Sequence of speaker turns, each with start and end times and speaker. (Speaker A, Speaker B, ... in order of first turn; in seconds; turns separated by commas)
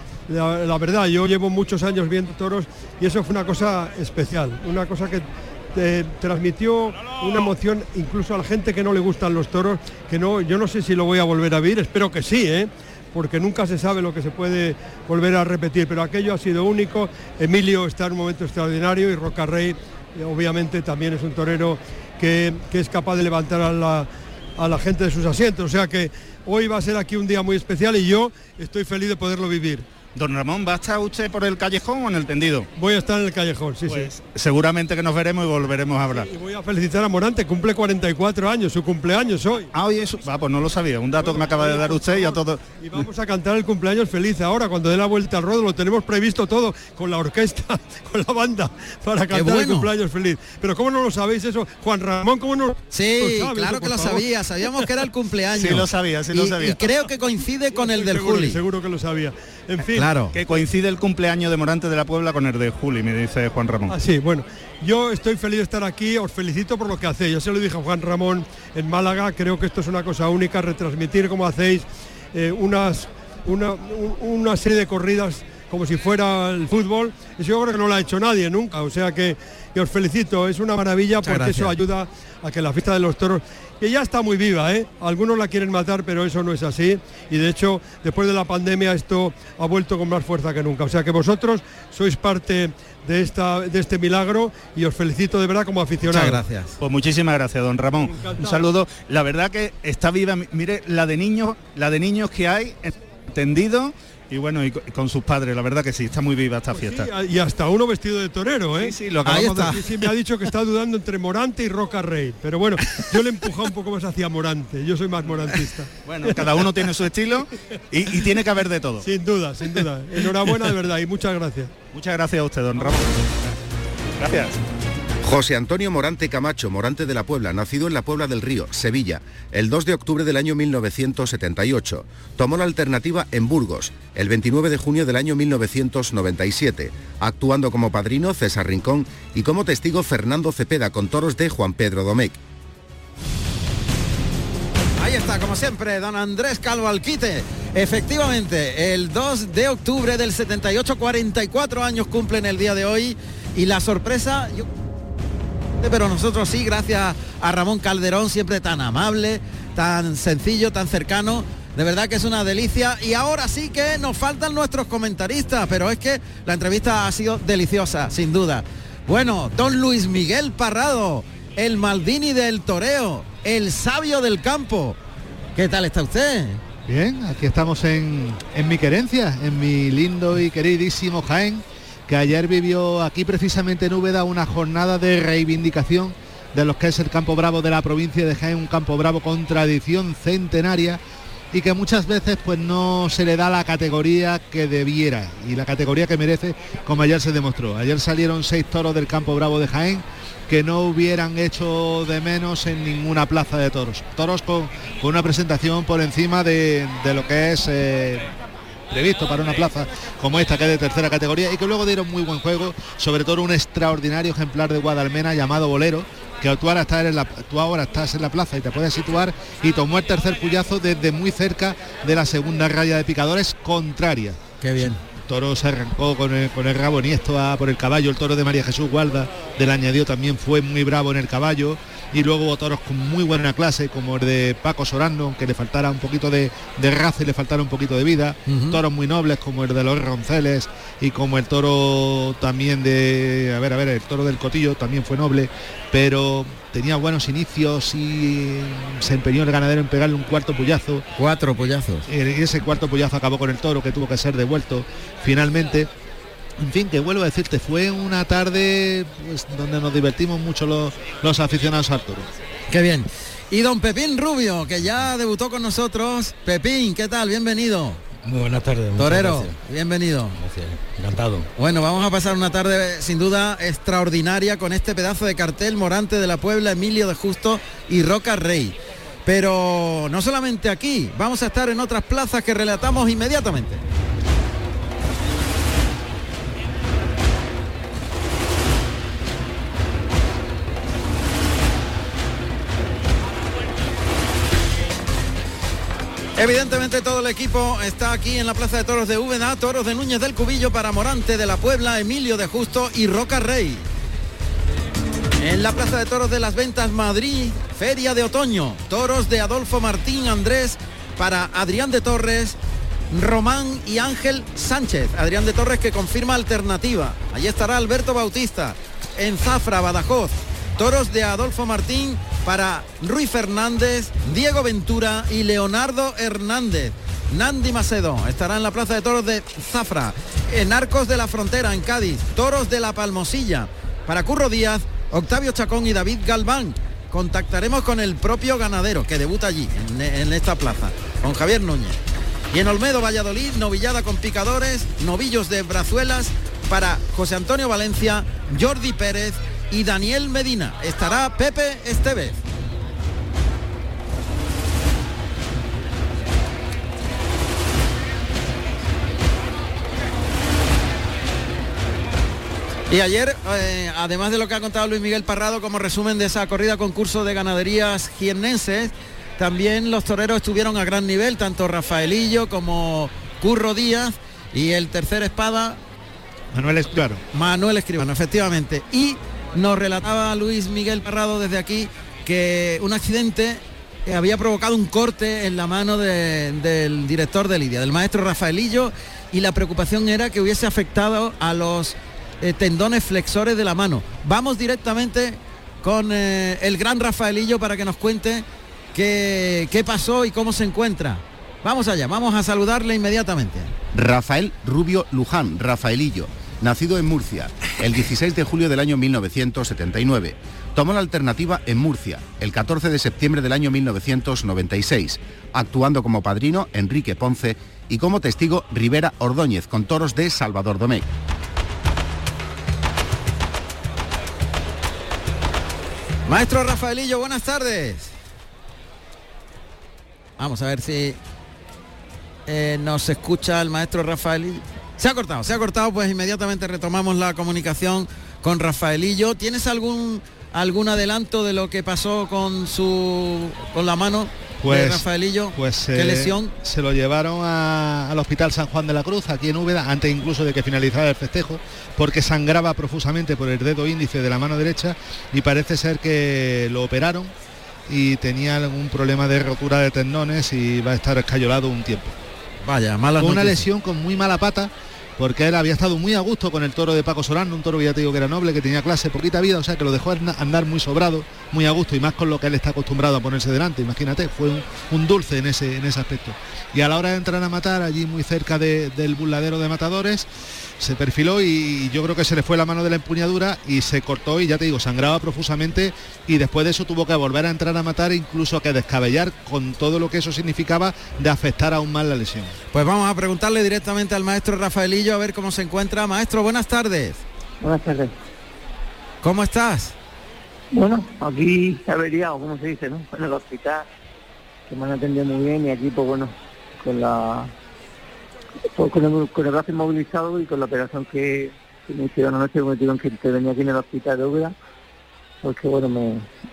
Speaker A: 0.3-29.9, Speaker B: 30.1-32.7, Speaker A: 32.8-34.1, Speaker B: 33.9-36.3, Speaker A: 36.1-39.7, Speaker B: 39.7-43.0, Speaker A: 41.2-54.9, Speaker C: 49.3-49.9, Speaker C: 52.9-58.6, Speaker B: 55.5-57.0, Speaker A: 57.7-60.1, Speaker C: 59.9-60.3, Speaker B: 60.3-63.9, Speaker A: 63.9-96.4, Speaker C: 81.2-81.8, Speaker C: 96.1-96.7, Speaker B: 96.8-107.1, Speaker A: 98.0-98.6, Speaker A: 106.7-116.5, Speaker B: 108.7-109.8, Speaker C: 109.2-109.8, Speaker B: 116.0-119.1, Speaker A: 119.0-121.7, Speaker B: 121.9-123.1, Speaker B: 124.2-124.5, Speaker D: 125.2-142.4, Speaker C: 145.0-154.7, Speaker C: 155.8-175.0, Speaker C: 175.6-176.6, Speaker E: 176.9-191.0, Speaker E: 191.5-208.3, Speaker E: 208.9-251.0, Speaker C: 224.6-225.0, Speaker C: 238.4-238.8, Speaker C: 251.2-252.1, Speaker E: 252.1-255.9, Speaker E: 256.6-262.2, Speaker C: 262.7-268.0, Speaker F: 268.2-269.6, Speaker C: 269.0-270.4, Speaker F: 270.4-271.5, Speaker C: 271.6-283.8, Speaker C: 296.4-303.9, Speaker C: 305.4-312.6, Speaker C: 313.1-342.0, Speaker C: 342.5-352.4, Speaker C: 362.9-375.8, Speaker E: 376.5-377.2, Speaker C: 377.3-403.7, Speaker D: 403.9-421.1, Speaker C: 426.2-428.1, Speaker C: 430.4-431.2, Speaker C: 432.5-446.5, Speaker E: 444.6-457.3, Speaker E: 457.9-462.1, Speaker C: 462.6-463.6, Speaker E: 463.2-480.3, Speaker E: 480.8-492.6, Speaker C: 492.7-497.2, Speaker G: 497.6-498.1, Speaker C: 499.2-499.9, Speaker G: 500.7-503.9, Speaker G: 504.7-507.5, Speaker G: 508.7-514.5, Speaker G: 515.4-516.3